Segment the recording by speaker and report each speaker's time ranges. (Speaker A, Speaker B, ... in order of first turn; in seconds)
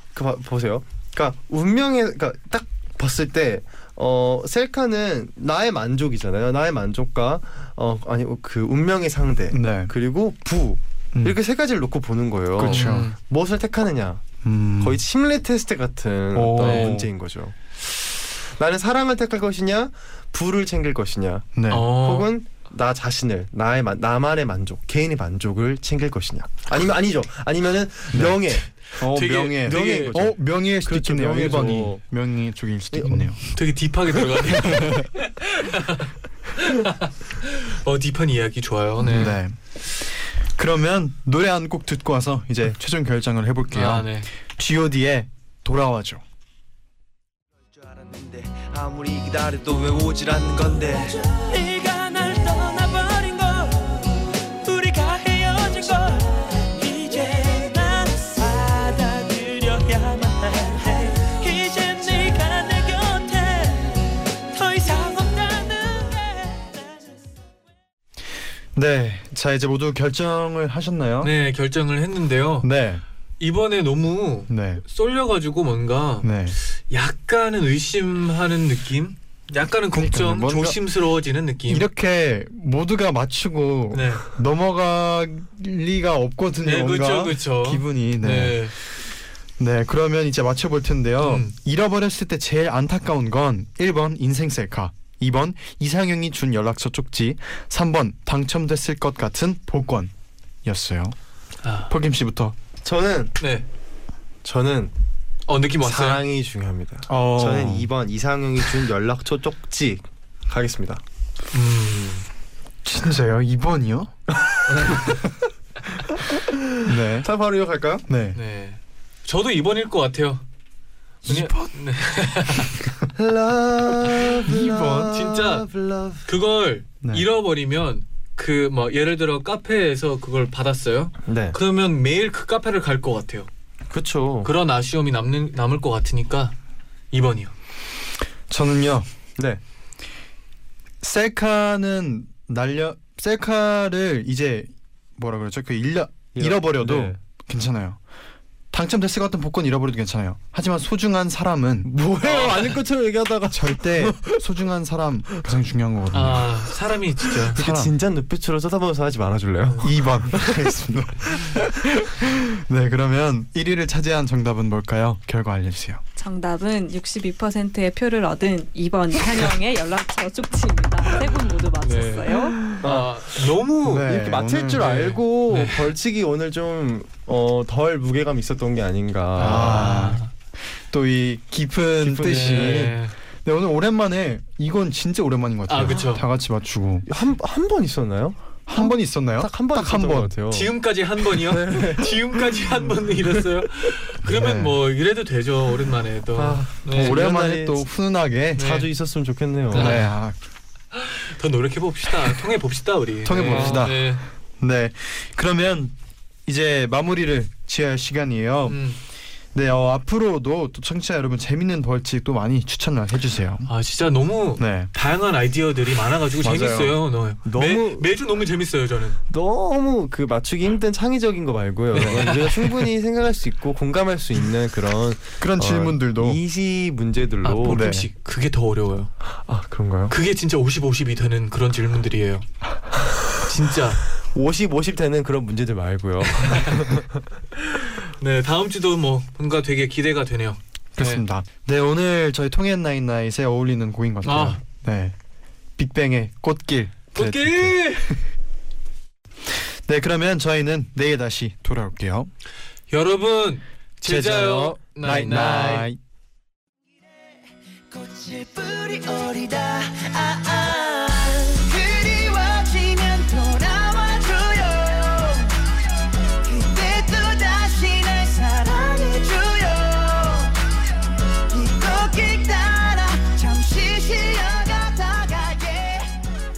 Speaker A: 0.1-14.2, 14.8-28.7, 29.6-32.0, 32.9-33.2, 102.8-103.3, 104.4-104.9, 105.8-111.0, 117.2-118.0, 123.1-126.3, 131.3-131.6, 133.9-134.5, 146.3-147.2, 151.8-154.4, 157.5-160.7, 172.8-173.1, 173.9-179.9, 182.1-182.8, 187.1-190.7, 191.5-192.2, 196.3-197.8, 198.6-200.0, 203.5-203.9, 217.4-218.1, 219.3-227.9, 229.5-230.2, 234.3-237.1
Speaker B: 9.5-9.9, 12.6-13.1, 14.4-15.0, 16.3-17.1, 21.6-21.9, 28.1-33.4, 34.6-35.1, 39.0-46.2, 68.8-71.3, 72.6-73.0, 74.5-74.8, 76.2-76.6, 79.9-80.8, 81.7-88.8, 89.6-100.1, 100.7-101.2, 101.9-102.6, 107.1-107.9, 112.8-114.1, 116.8-117.3, 118.1-118.4, 121.2-121.7, 124.4-125.2, 138.5-139.1, 141.0-148.0, 148.7-151.9, 153.5-156.7, 157.6-157.9, 159.8-166.0, 173.8-174.9, 179.4-180.2, 180.9-187.1, 188.7-190.3, 194.3-194.8, 196.9-198.8, 199.7-200.4, 203.2-205.9, 206.5-208.8, 209.5-213.7, 214.6-214.9, 216.4-217.0, 225.4-226.4, 227.7-228.1, 241.0-245.2, 245.8-248.1, 249.5-252.3, 254.0-256.0
Speaker C: 12.7-13.2, 16.6-16.9, 21.7-22.3, 28.9-30.2, 33.1-39.4, 43.7-44.3, 71.2-72.7, 73.4-76.3, 76.9-81.9, 83.9-84.3, 86.6-88.8, 91.2-91.5, 101.6-101.9, 103.4-103.7, 105.5-106.2, 111.5-112.2, 114.8-115.1, 118.4-120.4, 121.3-122.8, 124.9-125.7, 126.3-133.5, 134.4-136.6, 137.1-137.5, 152.2-152.8, 156.1-157.6, 171.8-174.1, 174.8-175.9, 179.4-180.3, 182.1-183.1, 185.7-186.2, 190.5-197.2, 198.6-198.9, 199.7-200.1, 200.9-204.2, 208.7-209.0, 213.7-219.2, 221.9-222.9, 227.4-229.1, 230.1-232.5, 233.4-234.0, 236.4-236.8, 237.7-241.2, 244.2-244.6, 247.1-248.2, 252.9-255.9
Speaker D: 47.8-67.1, 257.9-265.7, 266.4-270.6, 271.5-276.2
Speaker E: 166.2-172.6